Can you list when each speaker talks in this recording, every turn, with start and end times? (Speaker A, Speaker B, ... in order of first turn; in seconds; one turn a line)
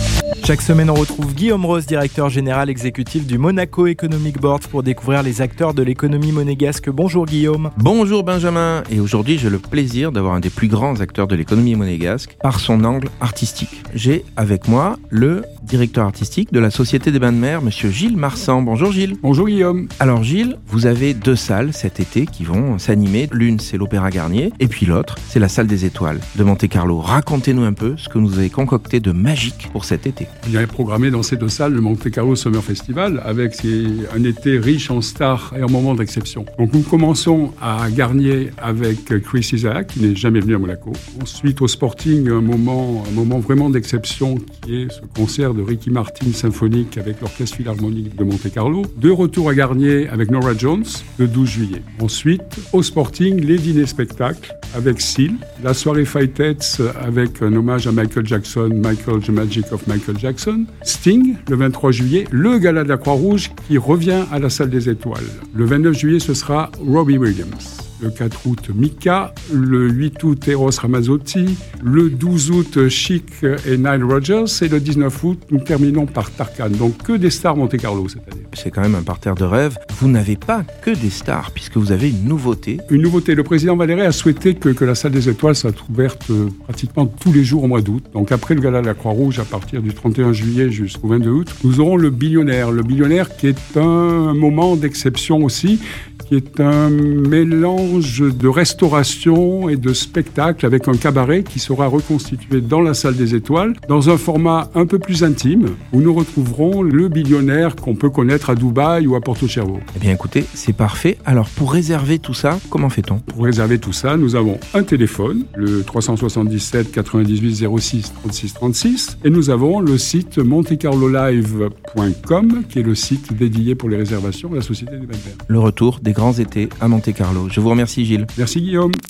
Speaker A: 0.4-7.7
Speaker B: 7.8-19.2
Speaker C: 19.2-19.9
Speaker B: 20.0-30.3
Speaker C: 30.4-78.5
Speaker B: 78.5-82.8
Speaker C: 82.9-109.9
Speaker B: 109.9-113.2
Speaker C: 113.3-125.4
Speaker B: 125.5-128.3
Speaker C: 128.4-129.0